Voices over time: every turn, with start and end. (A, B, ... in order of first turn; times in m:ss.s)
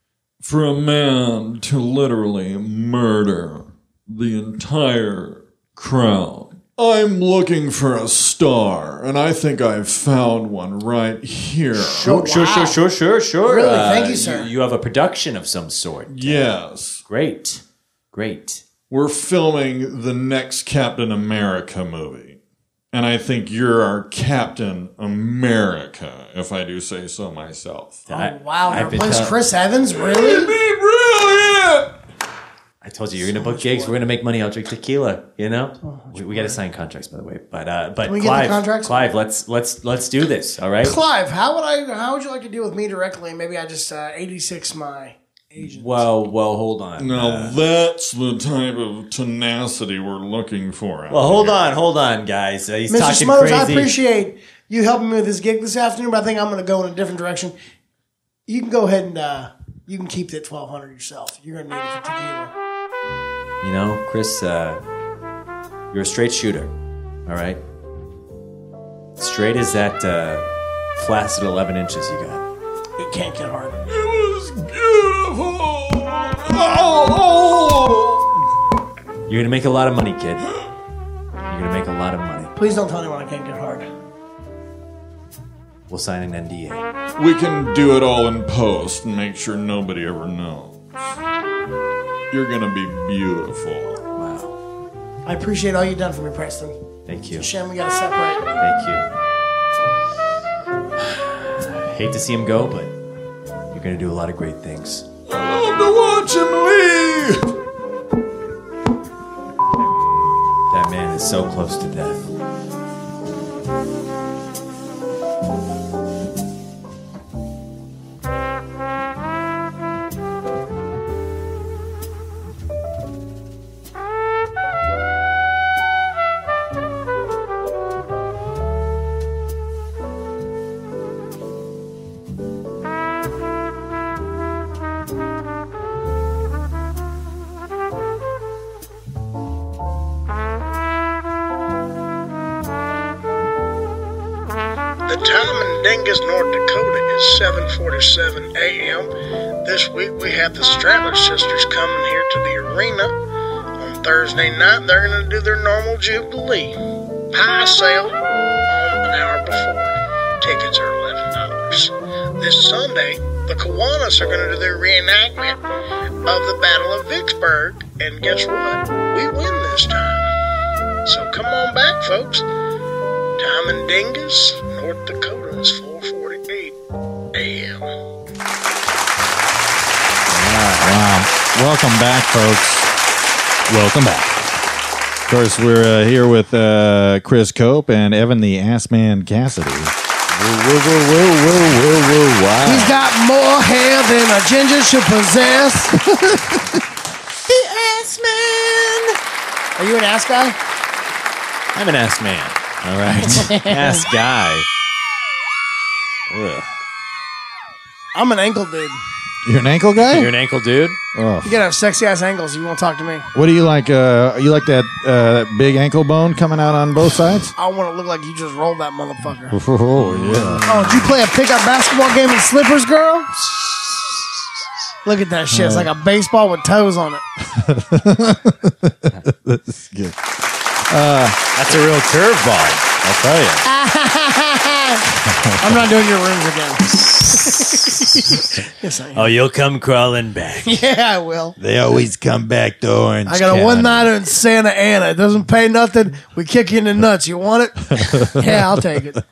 0:00.4-0:12.1 A
0:11.8-0:12.8 B
0:11.8-0:18.6 C
0:13.4-0:14.5 B
0:16.1-0:17.0 A
0:18.9-0:22.4 A
0:22.9-0:28.1 A
0:28.1-0:30.6 B
0:28.1-0:29.3 C
0:30.2-0:31.9 A
0:32.8-0:41.0 C
0:33.2-0:34.0 B
0:35.8-0:36.6 B
0:38.0-0:39.0 B
0:40.8-0:46.0 B
0:45.7-0:47.6 C
0:47.0-0:51.8 A
0:51.1-0:53.9 C
0:52.9-0:57.5 B
0:58.5-1:02.5 B
1:03.6-1:04.8 C
1:05.9-1:06.7 C
1:07.2-1:07.6 C
1:09.2-1:12.4 C
1:13.0-1:13.8 B
1:14.0-1:18.2 A
1:19.3-1:20.4 C
1:21.4-1:22.5 C
1:22.6-1:23.9 B
1:25.9-1:26.8 C
1:27.2-1:30.8 A
1:32.3-1:34.0 A
1:34.1-1:34.6 C
1:35.2-1:36.8 B
1:37.0-1:37.5 C
1:37.3-1:38.5 B
1:38.6-1:39.1 C
1:41.0-1:42.9 C
1:43.7-1:45.0 C
1:45.3-1:47.3 A
1:50.7-1:52.2 C
2:25.0-2:29.1 B
2:29.6-2:33.1 B
2:33.8-2:36.8 B
2:37.3-2:45.6 B
2:46.2-2:50.2 B
2:51.0-2:52.4 B
2:53.4-2:56.8 B
2:57.3-2:57.9 B
3:00.3-3:00.9 C
3:00.8-3:02.9 D
3:03.7-3:04.3 D
3:05.3-3:09.9 D
3:10.3-3:12.9 C
3:12.6-3:15.9 B
3:17.5-3:19.1 C
3:19.8-3:20.6 B
3:21.7-3:24.7 C
3:23.2-3:24.0 B
3:26.3-3:26.7 C
3:28.1-3:29.0 B
3:29.4-3:30.3 D
3:30.1-3:31.0 C
3:31.2-3:31.5 D
3:31.4-3:33.3 B
3:33.3-3:37.5 D
3:37.6-3:39.6 B
3:39.5-3:40.6 D
3:40.0-3:40.6 C
3:40.6-3:43.3 B
3:45.0-3:47.2 B
3:45.6-3:45.9 D
3:48.0-3:48.4 D
3:49.5-3:50.1 D
3:50.9-3:51.3 D
3:51.5-3:53.6 C
3:53.6-3:55.0 B
3:55.6-3:56.8 B
3:57.8-3:59.3 B
3:59.1-4:00.8 C
4:00.6-4:01.6 B
4:01.6-4:03.9 E
4:03.2-4:09.2 B